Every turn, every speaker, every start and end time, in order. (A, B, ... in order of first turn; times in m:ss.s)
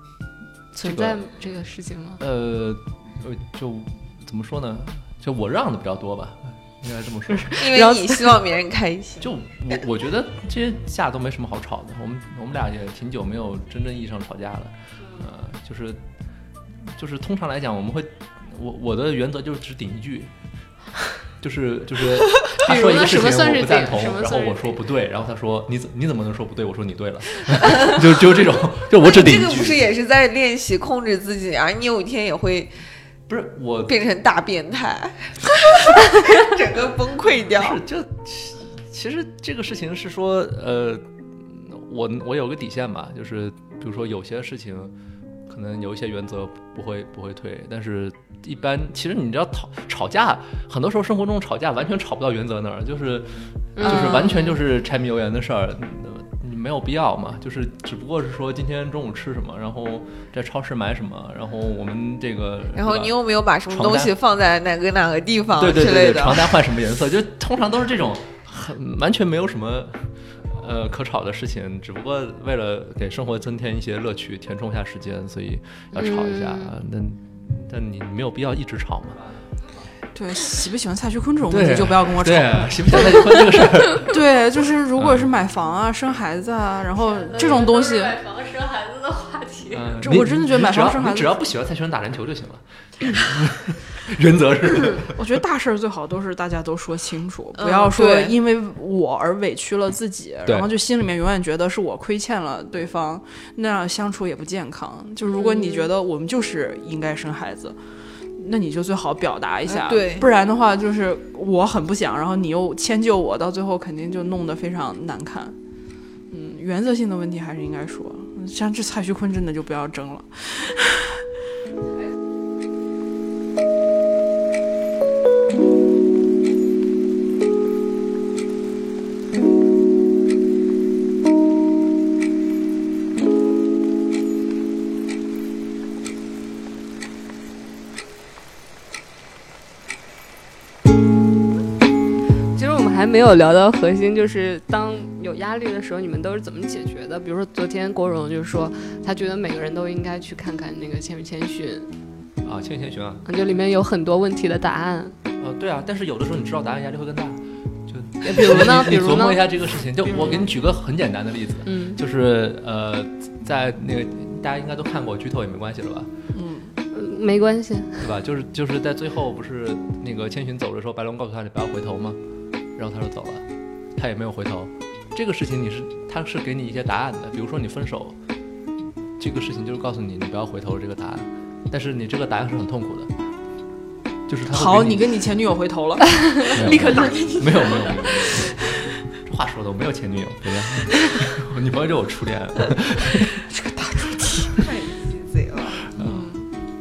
0:00.7-0:02.2 A
0:00.8-0:01.2 B
0:02.2-0:07.6 B
0:07.3-0:08.3 A
0:07.6-0:09.3 C
0:09.2-0:16.0 B
0:16.8-0:20.3 B
0:21.4-0:29.9 B
0:22.6-0:24.8 A
0:29.0-0:32.7 C
0:33.3-0:34.0 B
0:33.9-0:37.8 C
0:37.6-0:44.9 B
0:45.5-1:03.1 B
0:53.8-0:54.6 A
1:02.8-1:06.6 C
1:03.7-1:04.1 B
1:05.6-1:19.2 B
1:15.9-1:16.7 A
1:20.1-1:28.2 D
1:21.5-1:24.2 B
1:25.0-1:25.3 B
1:27.2-1:29.9 A
1:29.7-1:35.2 B
1:30.0-1:31.3 D
1:35.1-1:47.8 D
1:37.6-1:38.4 C
1:45.3-1:45.7 A
1:48.4-1:55.6 D
1:49.7-1:50.3 C
1:56.3-2:01.2 D
2:22.5-2:31.9 A
2:32.4-2:33.2 B
2:33.2-2:35.2 A
2:35.4-2:46.1 B
2:38.2-2:39.5 A
2:40.0-2:40.5 A
2:41.6-2:42.0 A
2:46.3-2:46.8 D
2:46.9-2:48.0 A
2:48.0-2:52.2 B
2:52.8-2:53.4 B
2:54.0-2:58.2 B
2:59.2-3:03.1 B
3:04.3-3:05.3 B
3:04.5-3:08.3 D
3:06.2-3:07.6 A
3:06.5-3:13.4 B
3:13.5-3:14.6 D
3:14.6-3:15.8 C
3:16.0-3:16.3 B
3:16.0-3:16.5 D